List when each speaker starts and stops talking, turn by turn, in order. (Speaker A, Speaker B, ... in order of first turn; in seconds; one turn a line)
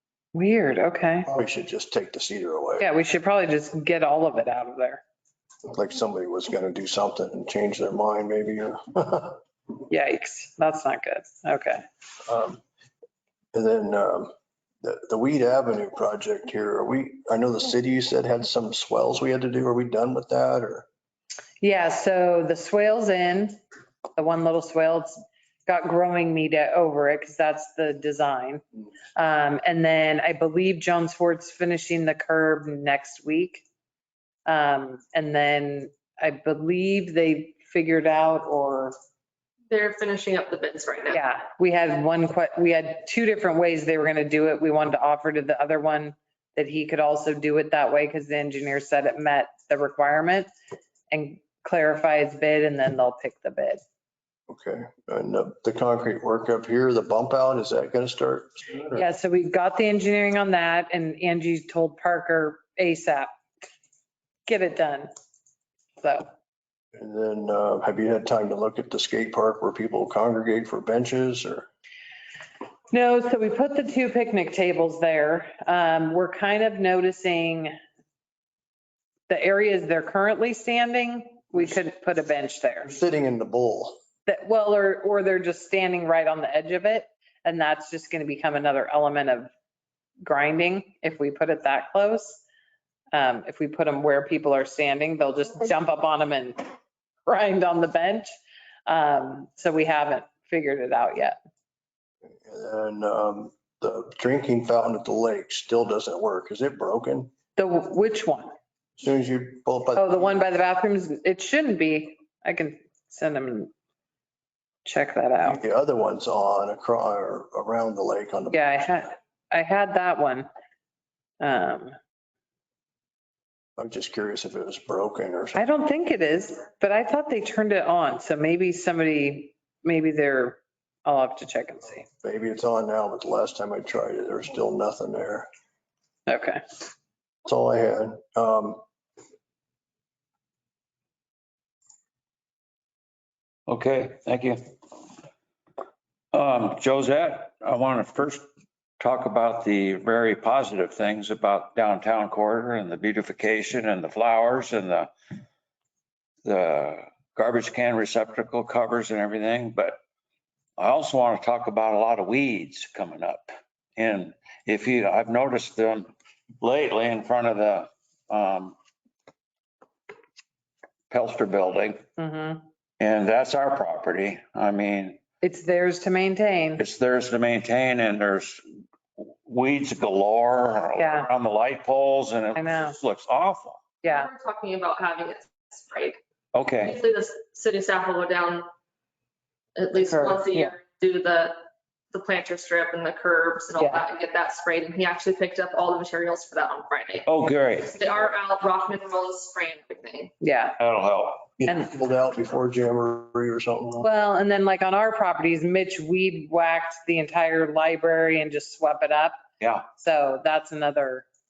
Speaker A: 0.3-1.3
Speaker B: 1.3-2.9
Speaker A: 2.8-5.0
Speaker B: 5.7-9.4
Speaker A: 9.9-11.8
Speaker B: 12.3-12.6
Speaker B: 13.5-14.3
Speaker B: 14.8-20.9
Speaker A: 21.6-23.6
Speaker A: 24.2-28.6
Speaker A: 29.2-33.6
Speaker A: 34.5-39.0
Speaker C: 39.7-41.2
Speaker A: 41.1-50.5
Speaker A: 51.1-53.8
Speaker B: 54.5-59.0
Speaker A: 58.9-63.3
Speaker A: 64.5-65.1
Speaker A: 66.0-66.3
Speaker B: 67.0-71.7
Speaker A: 72.9-77.7
Speaker A: 79.3-83.0
Speaker B: 82.9-84.0
Speaker A: 84.3-89.5
Speaker A: 90.2-92.4
Speaker A: 93.1-96.6
Speaker A: 97.3-98.3
Speaker A: 98.9-101.4
Speaker B: 102.4-107.3
Speaker A: 107.6-108.5
Speaker B: 109.0-110.4
Speaker A: 110.0-113.7
Speaker A: 114.8-115.6
Speaker B: 115.4-118.7
Speaker A: 118.5-120.5
Speaker A: 121.4-122.0
Speaker B: 123.8-125.6
Speaker A: 125.5-132.1
Speaker B: 132.2-135.5
Speaker A: 136.3-136.6
Speaker B: 137.4-138.8
Speaker D: 143.7-144.7
Speaker D: 146.3-148.5
Speaker D: 149.0-155.1
Speaker D: 156.4-160.0
Speaker D: 160.8-166.1
Speaker D: 166.6-168.8
Speaker D: 171.1-172.0
Speaker A: 172.2-172.6
Speaker D: 173.0-175.2
Speaker A: 175.4-176.8
Speaker D: 176.8-178.6
Speaker D: 179.2-183.8
Speaker A: 181.0-181.3
Speaker A: 182.6-183.0
Speaker A: 184.0-184.3
Speaker C: 184.0-186.2
Speaker D: 186.5-187.0
Speaker C: 186.8-188.7
Speaker C: 189.8-191.6
Speaker A: 190.1-190.7
Speaker C: 192.1-197.3
Speaker D: 197.3-197.9
Speaker C: 197.9-200.3
Speaker A: 200.4-200.8
Speaker D: 200.8-201.5
Speaker B: 201.6-204.1
Speaker A: 204.0-209.4
Speaker D: 209.6-209.9
Speaker A: 210.0-211.3